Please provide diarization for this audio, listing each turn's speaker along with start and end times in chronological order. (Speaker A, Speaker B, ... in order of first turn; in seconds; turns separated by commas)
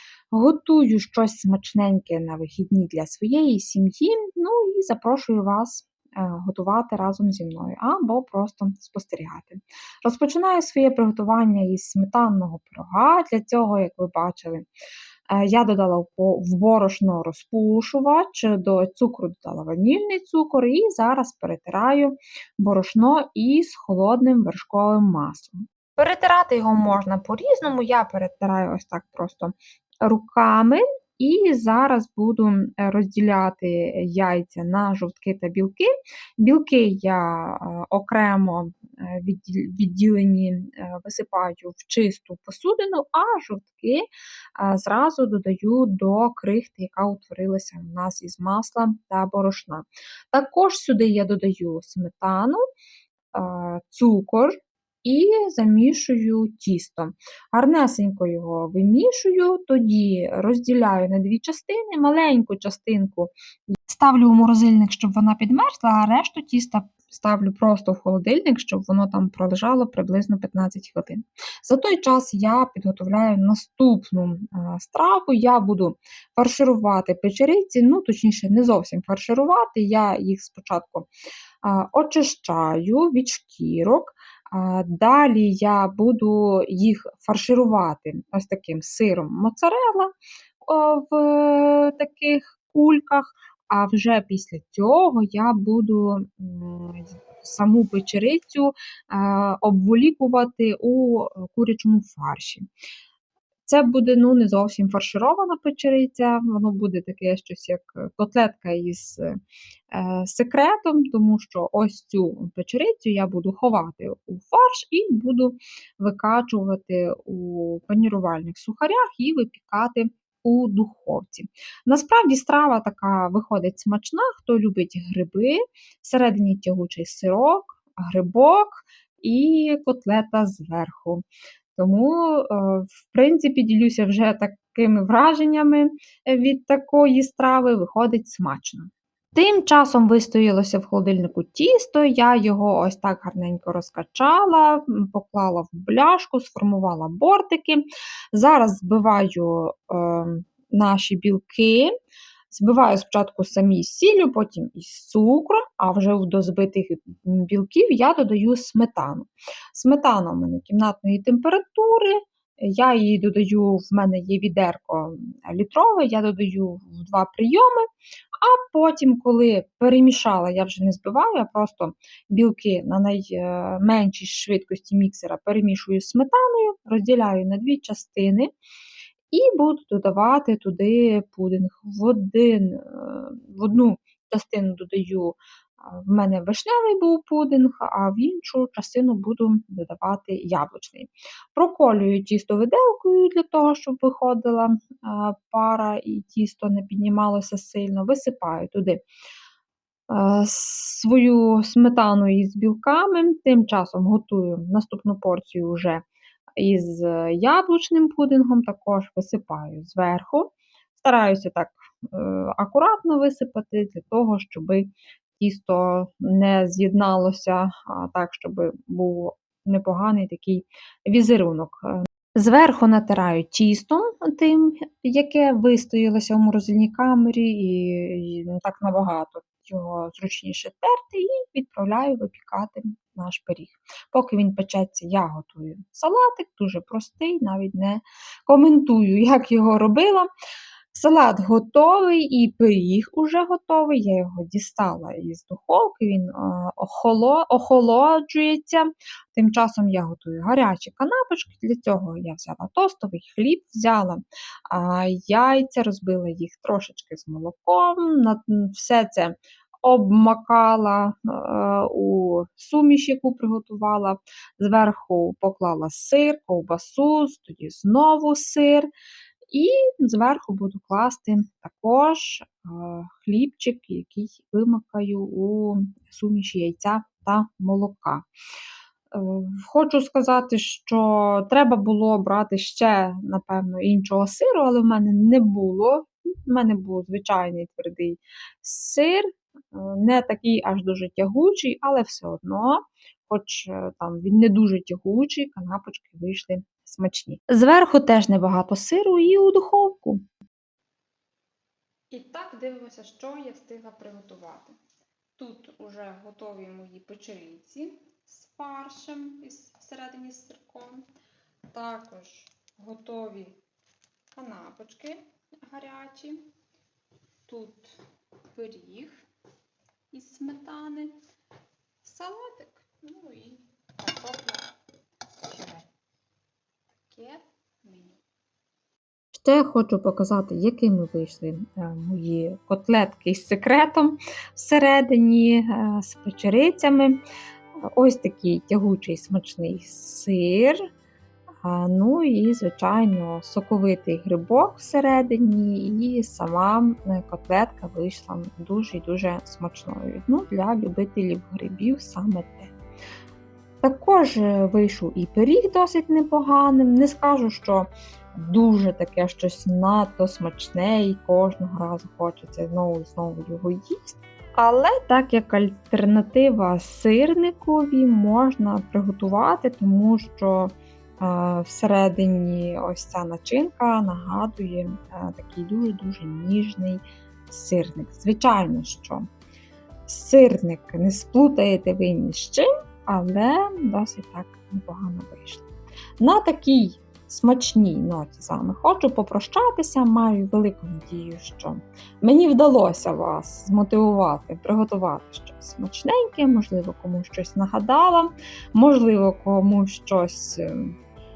Speaker A: 0.3-14.7, Speaker A: 15.3-44.0, Speaker A: 44.6-52.6, Speaker A: 53.3-63.3, Speaker A: 63.9-81.1, Speaker A: 81.6-102.7, Speaker A: 103.7-109.4, Speaker A: 109.9-151.9, Speaker A: 152.5-167.9, Speaker A: 168.4-178.5, Speaker A: 179.3-199.0, Speaker A: 200.1-206.0, Speaker A: 206.6-240.3, Speaker A: 240.9-268.9, Speaker A: 269.5-278.2, Speaker A: 279.1-300.2, Speaker A: 302.1-304.7, Speaker A: 305.4-311.1, Speaker A: 311.7-313.6, Speaker A: 314.3-316.4, Speaker A: 317.5-318.0, Speaker A: 318.5-319.2, Speaker A: 320.1-321.1, Speaker A: 322.0-324.7, Speaker A: 325.4-325.9, Speaker A: 327.1-328.2, Speaker A: 329.3-337.2, Speaker A: 337.9-340.8, Speaker A: 341.6-352.7, Speaker A: 353.8-379.3, Speaker A: 380.1-385.7, Speaker A: 386.2-400.9